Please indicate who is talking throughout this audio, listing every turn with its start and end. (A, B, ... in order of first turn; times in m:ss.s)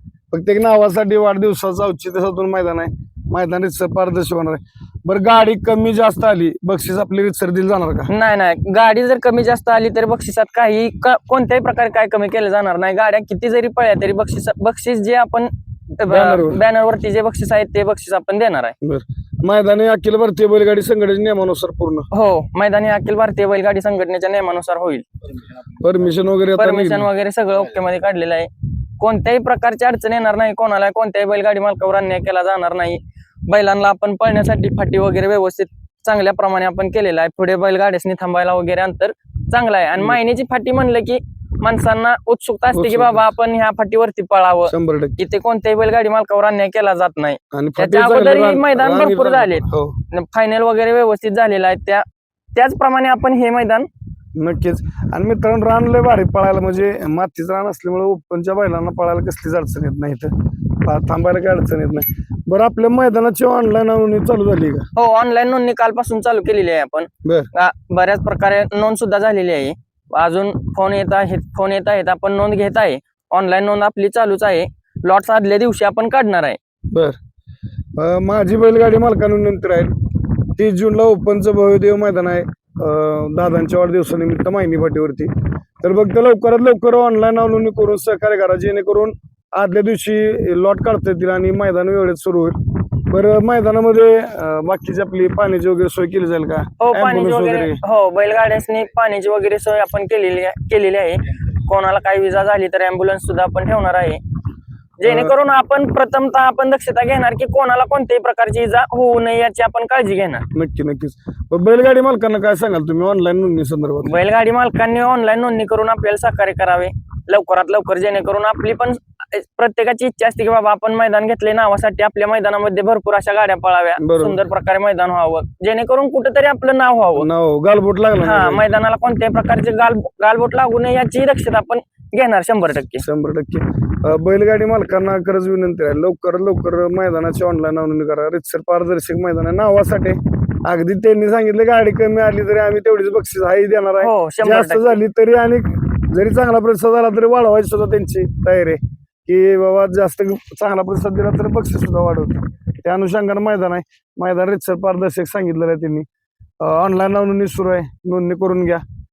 0:00.3-0:08.1 A
0:08.1-0:18.8 B
0:16.1-0:16.6 A
0:18.8-0:22.1 A
0:22.1-0:25.1 B
0:25.8-0:27.1 A
0:26.6-0:52.0 B
0:42.7-0:43.3 A
0:44.7-0:45.2 A
0:47.5-0:50.0 A
0:52.6-0:53.9 B
0:54.4-1:04.9 A
1:05.0-1:16.6 B
1:16.9-1:17.2 A
1:18.0-1:19.9 A
1:20.6-1:25.3 A
1:25.8-1:32.6 A
1:33.1-1:37.8 A
1:36.8-1:44.2 B
1:45.0-1:50.5 B
1:45.1-1:45.3 A
1:50.5-1:54.2 A
1:54.0-2:07.3 B
2:04.0-2:04.4 A
2:07.2-2:08.6 A
2:08.2-2:13.0 B
2:13.0-2:36.1 A
2:24.0-2:25.0 B
2:36.6-2:38.8 A